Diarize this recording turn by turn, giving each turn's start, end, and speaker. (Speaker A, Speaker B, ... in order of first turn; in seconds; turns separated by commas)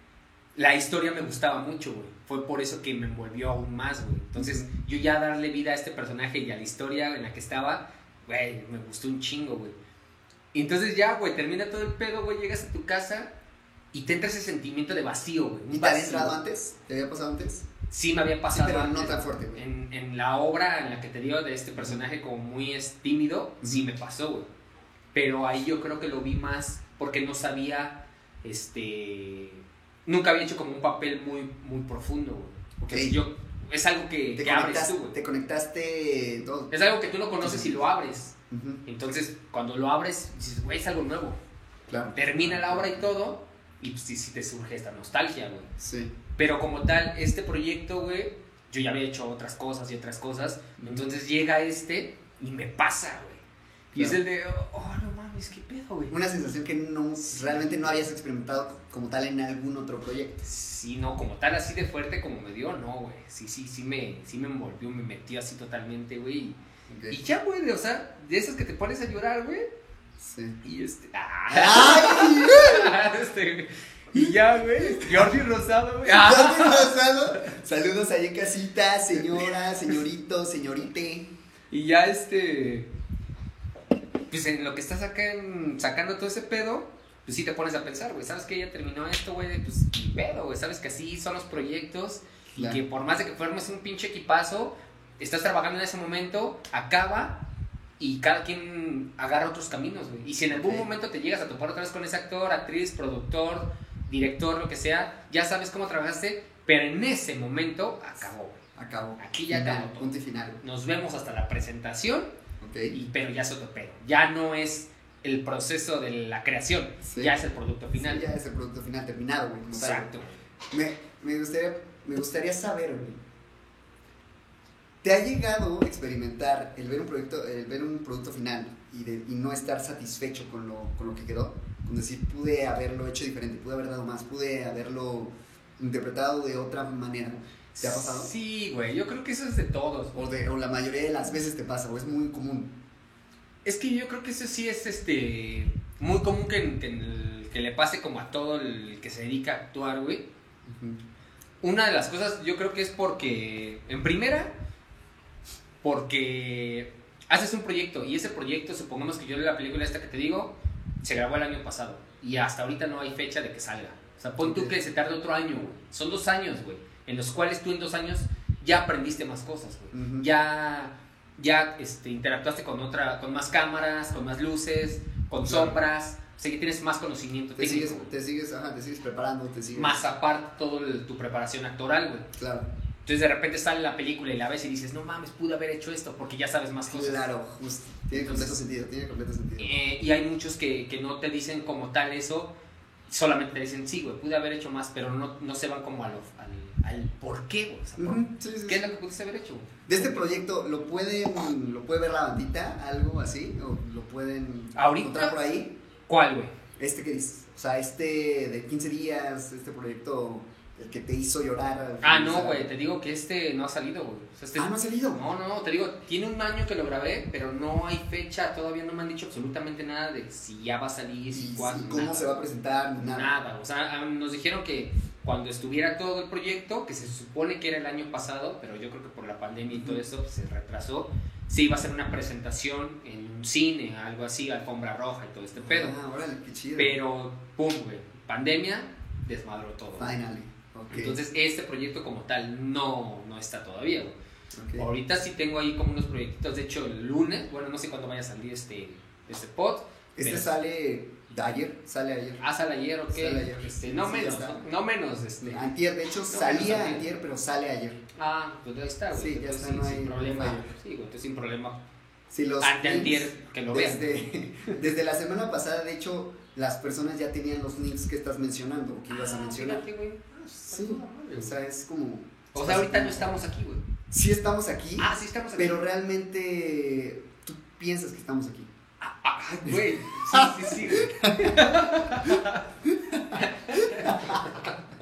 Speaker A: 0.6-9.8, Speaker B: 4.3-4.7, Speaker A: 10.5-13.3, Speaker A: 13.9-16.4, Speaker B: 15.7-17.7, Speaker A: 17.9-24.5, Speaker B: 18.5-19.6, Speaker B: 23.6-23.9, Speaker A: 25.1-35.2, Speaker B: 32.8-33.2, Speaker B: 34.4-36.7, Speaker A: 36.7-38.3, Speaker B: 37.4-37.8, Speaker B: 38.5-38.8, Speaker A: 38.9-41.4, Speaker B: 41.9-43.1, Speaker A: 42.1-45.7, Speaker B: 45.8-46.1, Speaker A: 46.4-53.4, Speaker B: 50.8-51.1, Speaker B: 53.9-54.2, Speaker A: 53.9-56.1, Speaker B: 56.1-60.4, Speaker A: 57.3-57.6, Speaker A: 60.4-66.6, Speaker B: 66.9-67.2, Speaker A: 67.1-69.7, Speaker B: 70.2-70.6, Speaker A: 70.6-77.5, Speaker B: 71.5-73.0, Speaker B: 74.1-75.4, Speaker B: 76.0-81.3, Speaker A: 81.7-82.9, Speaker A: 84.3-97.5, Speaker B: 92.5-92.8, Speaker A: 98.0-108.6, Speaker B: 100.5-100.9, Speaker B: 108.8-110.6, Speaker A: 109.2-112.3, Speaker B: 112.6-113.0, Speaker A: 112.9-118.3, Speaker B: 117.0-117.3, Speaker B: 118.0-120.1, Speaker A: 119.7-120.4, Speaker B: 120.7-123.2, Speaker B: 125.0-138.3, Speaker A: 137.7-140.2, Speaker B: 140.1-142.8, Speaker A: 143.6-150.3, Speaker B: 150.7-151.0, Speaker A: 151.6-154.5, Speaker A: 155.8-178.1, Speaker B: 164.4-164.8, Speaker B: 169.9-170.3, Speaker B: 175.4-175.8, Speaker B: 177.6-180.0, Speaker A: 179.7-182.3, Speaker B: 182.4-182.7, Speaker A: 183.0-187.2, Speaker B: 186.9-189.8, Speaker A: 188.1-188.6, Speaker A: 189.6-192.5, Speaker A: 193.1-200.4, Speaker B: 198.0-198.9, Speaker B: 199.9-205.8, Speaker A: 204.7-205.4, Speaker A: 206.1-206.5, Speaker B: 206.8-212.7, Speaker A: 212.0-222.3, Speaker B: 214.6-215.2, Speaker B: 221.3-223.3, Speaker A: 223.0-235.9, Speaker B: 229.7-230.0, Speaker B: 235.6-236.9, Speaker A: 236.8-240.1, Speaker B: 240.0-241.2, Speaker A: 240.9-244.1, Speaker B: 244.5-244.9, Speaker A: 244.8-250.5, Speaker B: 250.2-252.4, Speaker A: 252.4-255.7, Speaker B: 253.1-254.6, Speaker B: 255.4-258.0, Speaker A: 256.2-257.1, Speaker A: 258.1-261.8, Speaker B: 259.1-260.7, Speaker B: 262.3-269.8, Speaker A: 262.6-264.3, Speaker A: 269.1-271.5, Speaker B: 270.7-273.3, Speaker A: 272.5-273.8, Speaker B: 274.1-278.7, Speaker A: 275.0-275.8, Speaker A: 279.0-284.8, Speaker B: 279.6-284.4